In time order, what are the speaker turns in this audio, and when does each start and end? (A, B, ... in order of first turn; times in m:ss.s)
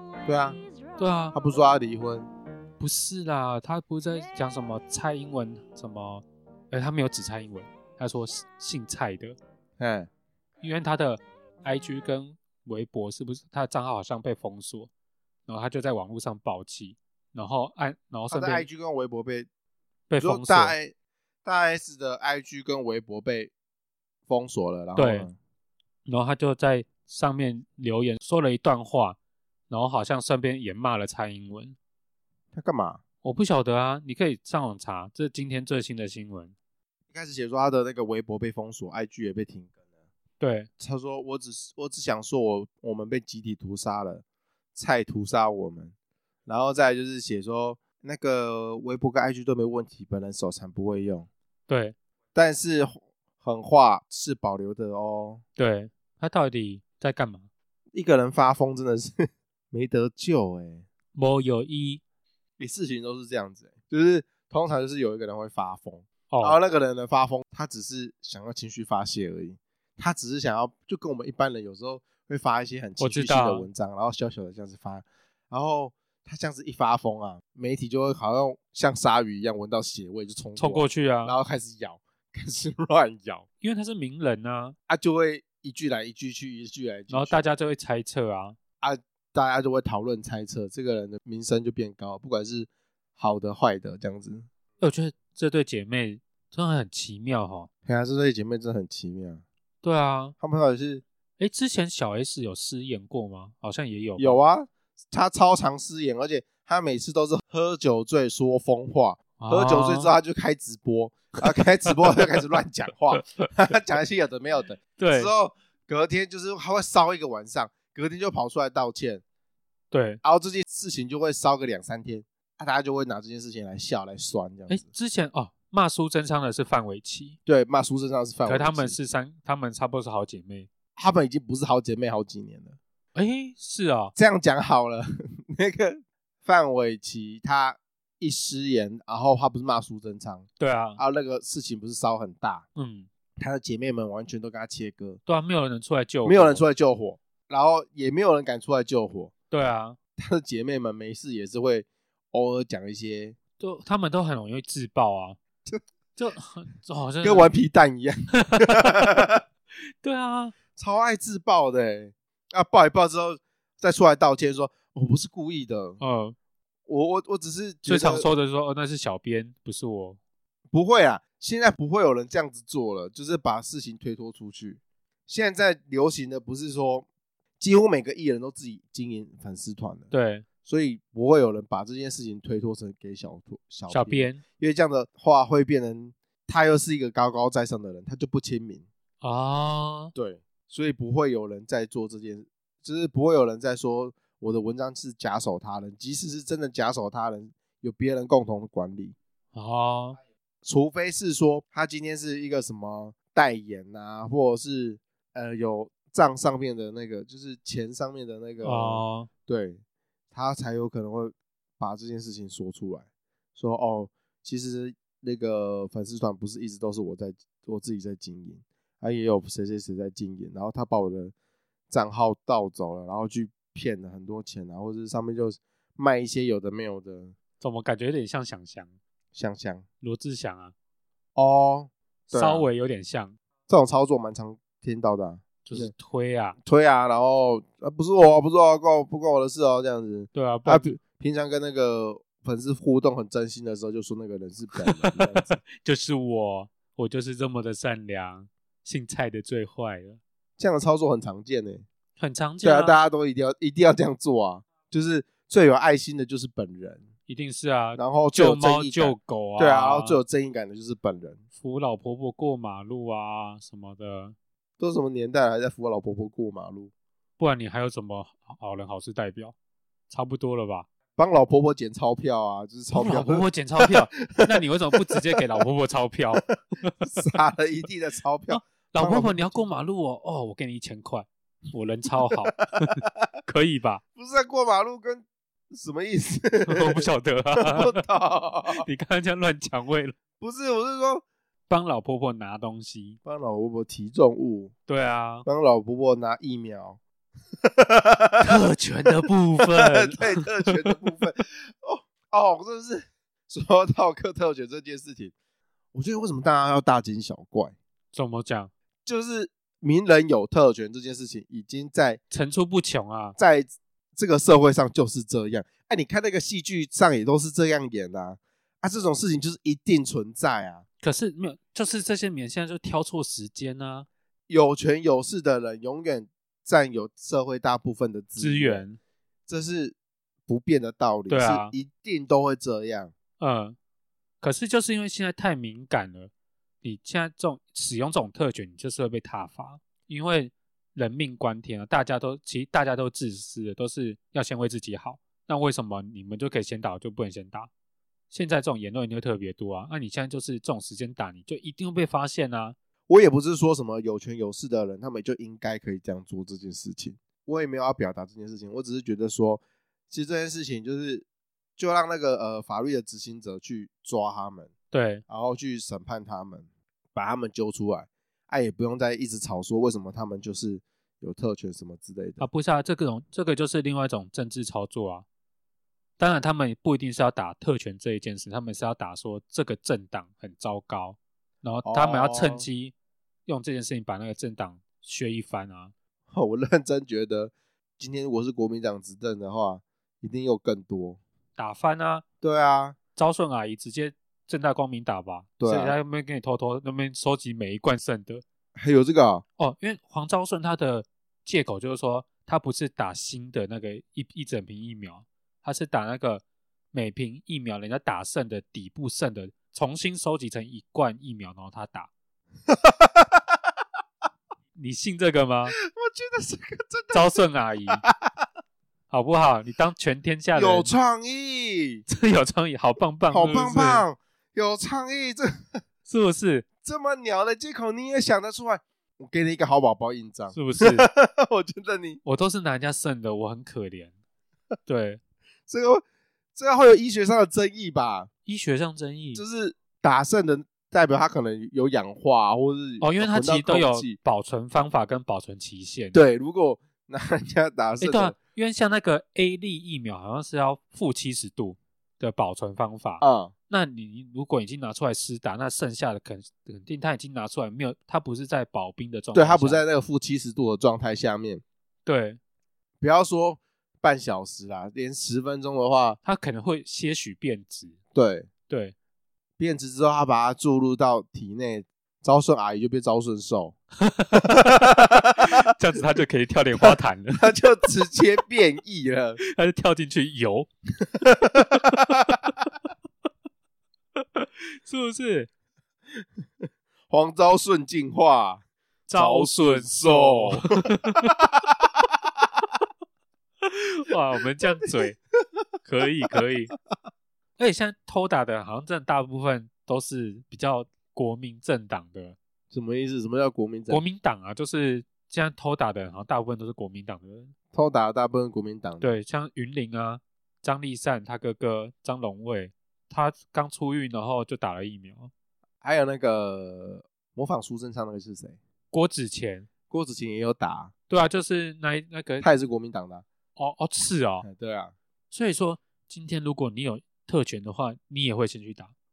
0:00.2-0:00.6 A
0:01.0-0:01.4 B
0:01.3-0:02.3 A
0:02.8-0:09.4 B
0:09.8-0:10.1 A
0:10.6-0:14.9 B
0:15.5-0:18.7 B
0:18.3-0:19.5 A
0:20.1-0:20.8 B
0:20.2-0:23.5 A
0:24.3-0:25.4 A
0:25.0-0:25.3 B
0:26.1-0:29.2 B
0:29.7-0:31.8 B
0:32.5-0:33.0 A
0:33.2-0:36.5 B
0:37.1-0:39.7 A
0:40.4-0:40.7 B
0:40.8-0:45.9 A
0:46.5-0:51.3 A
0:51.7-0:52.0 B
0:52.4-0:55.4 A
0:55.6-0:57.5 B
0:57.9-1:00.8 A
1:01.2-1:02.0 B
1:02.6-1:23.5 A
1:06.3-1:06.6 B
1:13.0-1:13.7 B
1:20.6-1:21.4 B
1:23.6-1:24.8 B
1:24.9-1:27.5 A
1:27.1-1:28.6 B
1:28.8-1:34.5 A
1:34.8-1:37.7 B
1:37.9-1:39.4 A
1:39.8-1:40.3 B
1:40.4-1:41.0 A
1:41.4-1:44.4 B
1:44.2-1:59.2 A
1:49.4-1:50.1 B
1:53.2-1:53.5 B
1:55.0-1:55.3 B
1:59.9-2:00.2 B
2:00.2-2:04.9 A
2:04.7-2:07.4 B
2:07.5-2:09.0 A
2:08.4-2:10.7 B
2:11.0-2:12.8 A
2:13.2-2:14.1 B
2:14.2-2:20.5 A
2:20.6-2:21.0 B
2:21.0-2:22.6 A
2:22.8-2:23.1 B
2:23.4-2:25.2 A
2:25.3-2:26.6 B
2:26.2-2:29.3 A
2:29.5-2:30.0 B
2:30.2-2:33.4 A
2:33.6-2:35.4 B
2:36.2-2:37.5 B
2:37.2-2:39.4 A
2:38.5-2:39.2 B
2:40.0-2:40.6 B
2:40.8-2:46.0 A
2:46.0-2:46.4 B
2:46.9-2:48.3 A
2:47.8-2:50.2 B
2:50.7-2:57.1 A
2:57.6-3:00.1 A
3:00.1-3:00.5 B
3:00.6-3:08.9 A
3:03.9-3:04.4 B
3:09.2-3:10.1 B
3:10.2-3:19.2 A
3:19.5-3:20.2 B
3:20.6-3:29.8 A
3:28.6-3:29.3 B
3:30.3-3:41.3 A
3:41.9-3:47.4 A
3:47.6-3:48.9 B
3:49.3-3:49.8 A
3:50.0-3:50.7 B
3:51.4-3:52.7 A
3:52.3-3:53.4 B
3:53.7-3:55.9 A
3:55.6-3:56.6 B
3:56.6-4:05.6 A
4:00.3-4:01.0 B
4:04.8-4:10.2 B
4:10.6-4:11.8 A
4:12.2-4:13.0 B
4:12.6-4:17.1 A
4:17.3-4:20.2 B
4:18.0-4:21.4 A
4:21.6-4:24.4 B
4:24.8-4:26.9 A
4:27.4-4:29.6 B
4:30.1-4:30.9 B
4:31.2-4:34.5 A
4:32.9-4:37.1 B
4:37.0-4:39.6 A
4:38.5-4:44.0 B
4:42.5-4:43.2 A
4:44.2-4:47.1 A
4:46.7-4:48.0 B
4:47.6-4:48.9 A
4:48.7-4:50.2 B
4:50.4-4:51.2 A
4:51.7-4:53.2 B
4:53.3-4:54.7 A
4:54.9-4:55.5 B
4:55.5-4:57.0 A
4:57.6-4:59.1 A
4:58.4-5:00.8 B
4:59.6-5:05.3 A
5:05.9-5:07.8 A
5:08.1-5:08.7 B
5:09.1-5:12.2 A
5:12.3-5:13.4 B
5:13.4-5:20.8 A
5:21.0-5:24.1 B
5:24.5-5:28.8 A
5:28.4-5:29.0 B
5:29.5-5:30.0 A
5:30.5-5:33.1 A
5:31.3-5:31.7 B
5:33.4-5:33.8 B
5:34.4-5:36.3 B
5:36.8-5:47.7 B
5:48.3-5:52.8 B
5:53.1-6:01.2 A
6:01.8-6:04.7 A
6:04.9-6:05.2 B
6:05.3-6:12.5 A
6:12.4-6:15.2 B
6:16.2-6:22.9 B
6:21.8-6:22.7 A
6:23.5-6:25.9 B
6:26.3-6:31.2 A
6:31.6-6:32.2 B
6:32.4-6:33.0 A
6:33.2-6:38.4 B
6:35.6-6:36.0 A
6:38.8-6:39.4 A
6:39.6-6:52.1 B
6:52.7-6:53.4 A
6:54.8-6:55.8 B
6:55.8-6:57.3 A
6:57.1-6:58.0 B
6:57.9-6:58.4 A
6:59.1-7:00.9 B
7:00.6-7:02.0 A
7:02.1-7:04.0 B
7:03.3-7:05.8 A
7:06.1-7:06.7 B
7:06.8-7:12.2 A
7:10.5-7:11.1 B
7:12.2-7:14.1 B
7:14.9-7:15.2 B
7:15.7-7:16.0 A
7:16.6-7:18.3 A
7:18.5-7:19.4 B
7:19.4-7:24.2 A
7:23.0-7:26.2 B
7:26.1-7:28.4 A
7:28.0-7:39.8 B
7:33.2-7:33.5 A
7:39.3-7:41.6 A
7:42.0-7:42.4 B
7:43.0-7:46.2 A
7:46.2-7:48.0 B
7:48.2-7:48.5 A
7:48.7-7:49.0 B
7:49.6-7:53.8 A
7:54.0-7:57.6 B
7:54.4-7:55.2 A
7:56.8-7:59.4 A
7:59.4-8:00.7 B
8:01.2-8:01.8 A
8:04.2-8:05.5 B
8:07.1-8:08.6 A
8:09.1-8:11.3 B
8:09.1-8:11.5 A
8:13.6-8:15.2 B
8:15.8-8:16.7 B
8:17.6-8:22.4 B
8:22.7-8:24.0 A
8:23.9-8:27.5 B
8:27.7-8:29.1 A
8:29.0-8:35.3 B
8:35.8-8:38.6 A
8:38.9-8:39.7 B
8:39.9-8:40.9 A
8:41.1-8:42.5 B
8:42.4-8:43.2 A
8:43.6-8:44.5 B
8:44.4-8:44.9 A
8:45.3-8:48.9 B